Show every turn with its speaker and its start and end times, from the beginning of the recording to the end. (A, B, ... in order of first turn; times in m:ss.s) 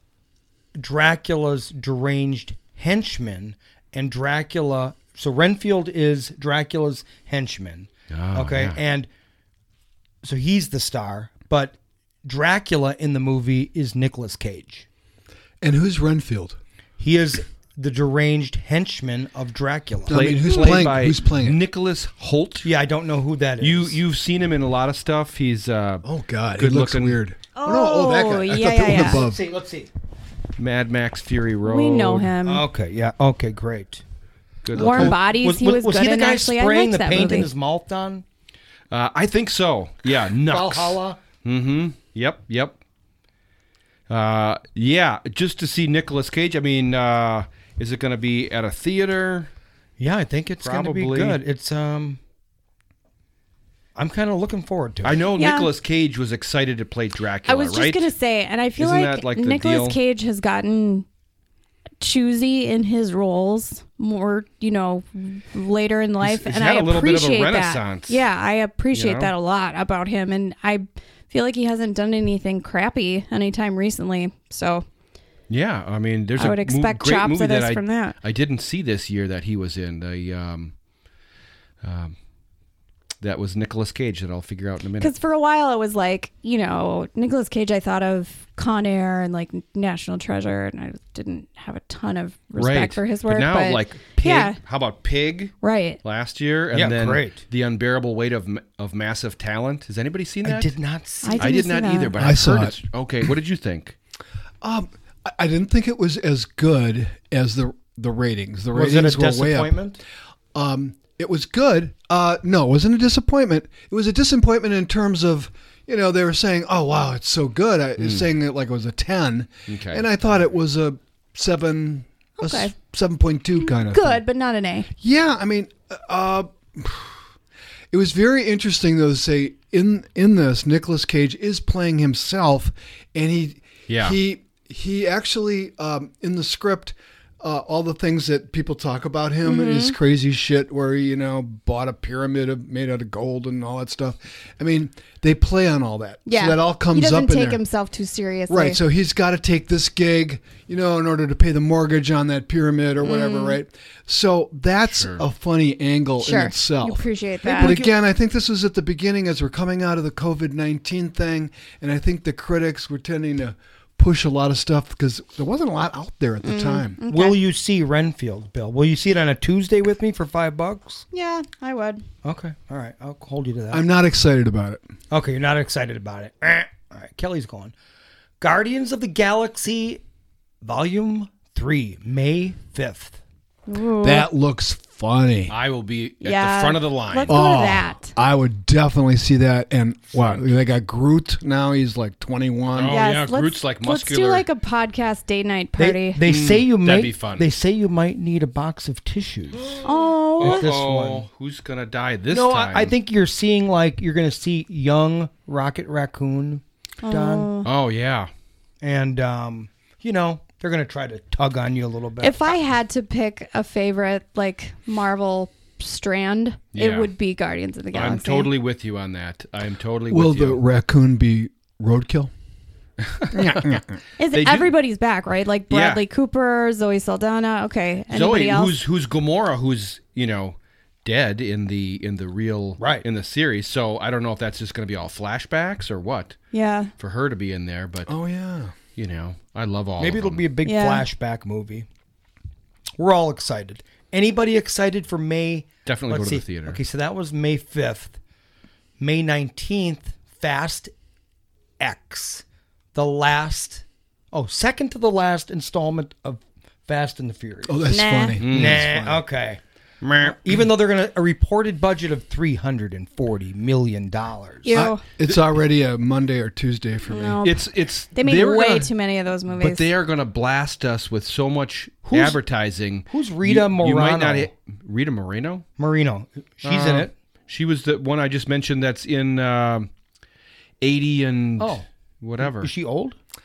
0:00.8-0:09.1 A
0:08.1-0:08.8 B
0:10.2-0:14.9 A
0:15.6-0:16.6 C
0:17.0-0:20.4 A
0:20.1-0:21.6 C
0:20.1-0:22.7 B
0:22.6-0:24.0 A
0:23.6-0:26.1 B
0:26.0-0:29.4 C
0:26.6-0:27.2 B
0:27.6-0:29.2 D
0:28.8-0:29.9 A
0:30.6-0:32.3 B
0:31.6-0:32.6 D
0:32.4-0:34.0 A
0:34.6-0:35.2 B
0:34.7-0:37.5 D
0:34.8-0:38.2 A
0:38.9-0:42.8 B
0:40.5-0:41.2 A
0:44.1-0:49.5 B
0:50.0-0:52.2 A
0:50.6-0:51.4 B
0:54.0-0:55.2 A
0:55.0-0:58.1 B
0:55.4-0:55.7 D
0:57.5-1:01.1 D
0:58.8-1:00.0 B
1:02.0-1:14.8 D
1:06.2-1:08.2 B
1:08.9-1:09.3 B
1:15.5-1:20.7 B
1:16.4-1:18.2 D
1:21.8-1:22.2 B
1:23.2-1:25.1 B
1:25.0-1:34.6 D
1:32.6-1:40.8 B
1:35.6-1:36.0 D
1:36.7-1:37.4 A
1:40.4-1:41.6 A
1:41.2-1:42.1 D
1:41.4-1:44.0 B
1:42.1-1:42.8 C
1:44.6-1:49.7 C
1:48.7-1:50.0 A
1:50.5-2:04.2 C
1:58.0-1:58.2 B
1:59.7-2:00.0 B
2:02.4-2:02.7 D
2:03.6-2:04.9 D
2:05.0-2:07.2 C
2:07.9-2:27.6 C
2:13.9-2:14.2 B
2:19.4-2:20.0 D
2:26.3-2:28.8 D
2:28.5-2:47.0 C
2:33.0-2:33.6 D
2:35.0-2:35.2 B
2:36.2-2:37.8 D
2:37.6-2:37.9 B
2:46.4-2:47.4 D
2:47.1-2:51.0 A
2:51.1-2:52.0 D
2:52.2-2:53.9 A
2:53.7-2:54.8 C
2:55.1-2:57.7 A
2:58.4-3:00.0 A
3:00.6-3:03.2 A
3:03.7-3:04.3 D
3:04.0-3:05.6 C
3:05.5-3:07.4 B
3:06.2-3:08.1 D
3:07.3-3:13.0 C
3:12.7-3:14.5 B
3:12.9-3:16.2 D
3:15.8-3:19.8 A
3:16.2-3:17.5 B
3:19.8-3:20.7 D
3:20.4-3:21.2 A
3:20.4-3:22.9 B
3:22.3-3:27.5 A
3:27.0-3:27.7 D
3:27.6-3:28.3 B
3:28.8-3:32.5 A
3:32.2-3:38.5 D
3:36.8-3:37.1 B
3:37.9-3:40.6 B
3:40.1-3:42.3 C
3:43.0-3:44.7 B
3:43.3-3:43.8 C
3:44.2-3:48.8 D
3:45.7-3:46.0 B
3:48.1-3:56.4 B
3:52.8-3:53.0 A
3:56.5-3:56.9 D
3:57.0-3:58.1 B
3:58.1-3:58.8 C
3:59.0-4:00.4 B
4:00.0-4:01.9 A
4:00.6-4:01.1 D
4:03.0-4:08.2 A
4:05.9-4:06.8 B
4:09.0-4:10.9 A
4:11.8-4:17.9 A
4:17.7-4:19.2 C
4:17.9-4:18.4 D
4:18.4-4:18.9 B
4:18.5-4:19.6 A
4:20.0-4:20.6 B
4:20.2-4:24.8 A
4:24.6-4:25.0 D
4:24.7-4:27.4 C
4:27.1-4:29.8 D
4:27.4-4:28.9 B
4:29.5-4:35.6 B
4:32.1-4:32.4 A
4:33.1-4:34.5 A
4:35.8-4:37.1 A
4:36.6-4:39.9 B
4:40.8-4:42.7 B
4:41.6-4:41.9 A
4:42.4-4:43.2 A